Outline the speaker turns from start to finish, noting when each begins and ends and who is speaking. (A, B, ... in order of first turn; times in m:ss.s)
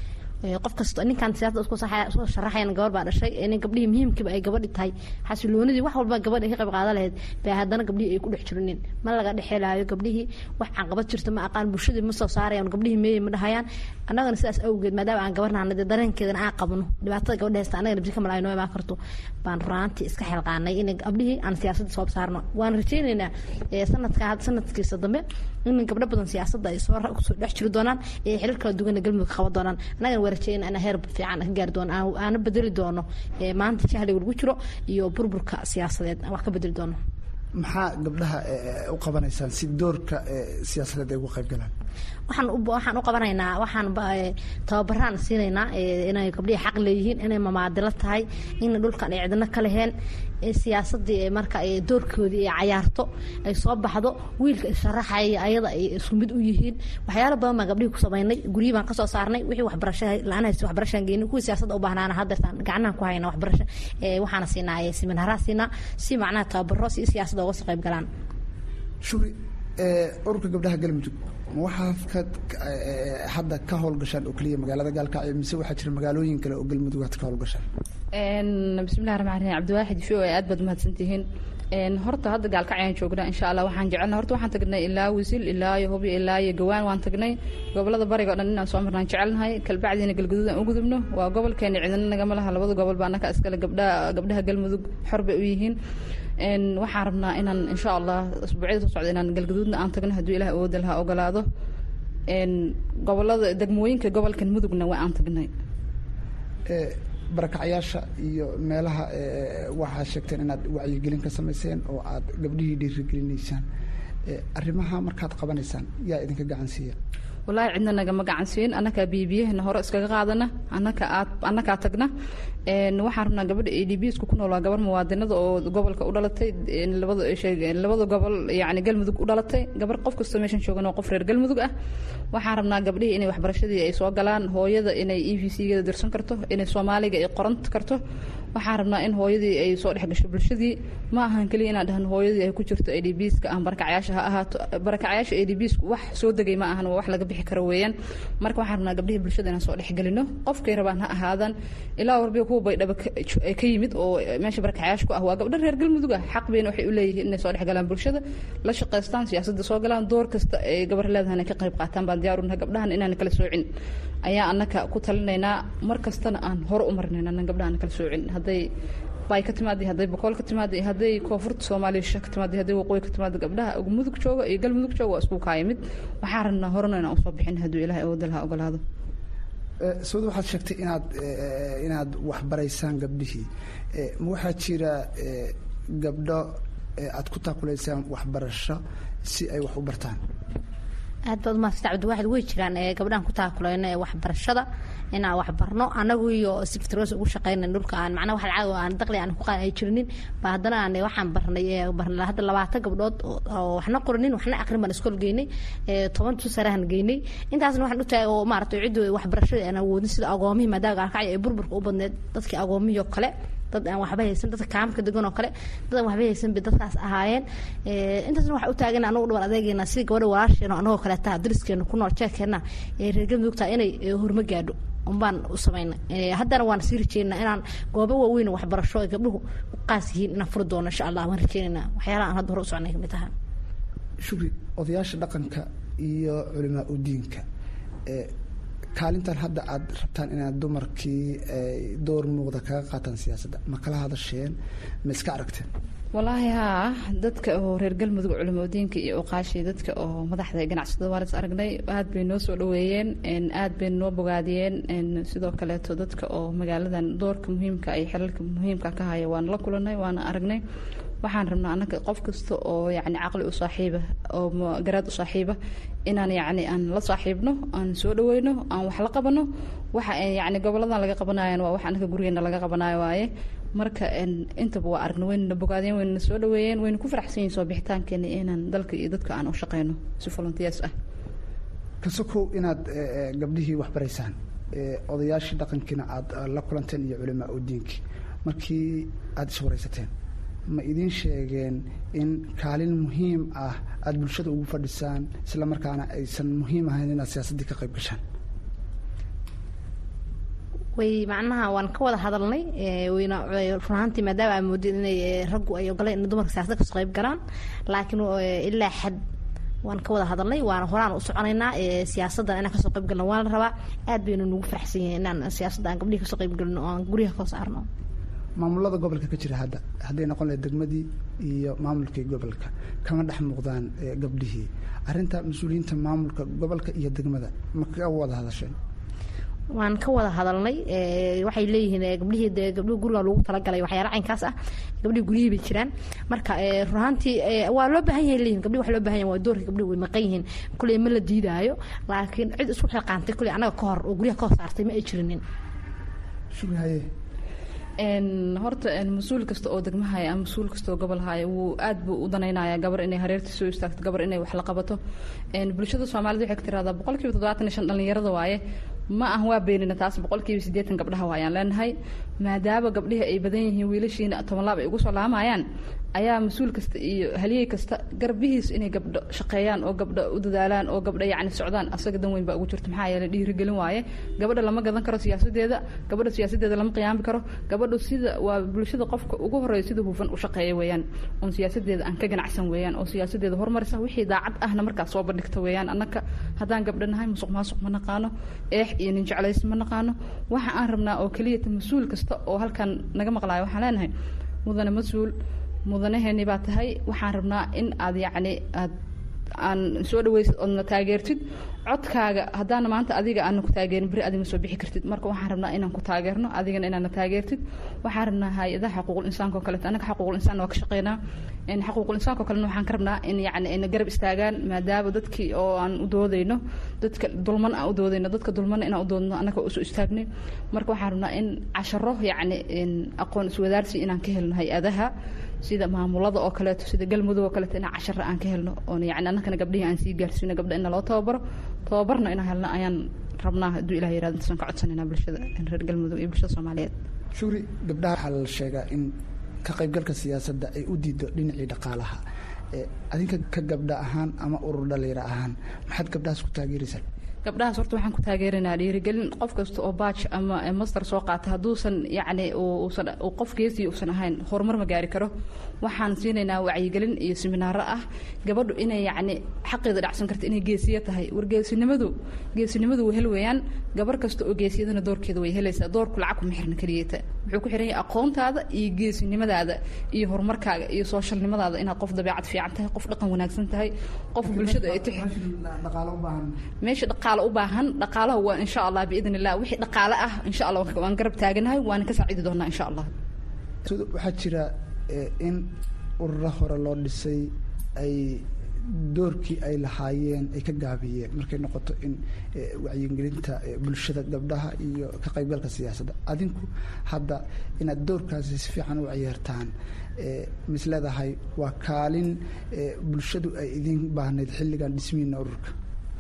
0:00.4-0:37.0 A
0:37.6-0:41.7 B
0:42.3-0:49.9 A
0:50.4-1:08.1 A
1:09.0-1:17.6 B
1:18.2-1:35.8 C
1:36.4-1:41.4 C
1:42.3-1:45.5 C
1:46.7-1:53.6 B
1:54.2-1:57.0 B
1:57.5-2:02.1 C
2:02.7-2:11.7 C
2:12.3-2:18.0 C
2:18.5-2:43.6 C
2:44.2-2:48.7 C
2:49.3-2:58.8 C
2:59.8-3:10.2 B
3:11.3-3:53.3 A
3:54.2-3:57.4 B
3:58.0-3:58.3 B
3:58.9-4:05.7 B
4:06.1-4:20.6 C
4:21.2-4:40.9 C
4:42.0-4:50.1 B
4:50.7-4:58.2 B
5:01.0-5:09.2 A
5:09.8-5:17.8 A
5:18.6-5:28.8 B
5:29.7-5:45.4 A
5:46.5-5:47.1 B
5:48.0-5:55.0 C
5:55.5-5:58.6 C
5:59.1-6:05.6 C
6:06.1-6:34.1 C
6:34.6-6:35.3 C
6:35.9-6:38.9 C
6:39.6-6:51.2 C
6:51.7-7:05.1 C
7:05.6-7:16.9 C
7:17.3-7:22.2 B
7:22.7-7:27.0 B
7:27.4-7:35.3 C
7:35.8-7:55.2 C
7:54.4-7:56.5 B
7:56.8-8:03.1 C
8:03.8-8:25.7 B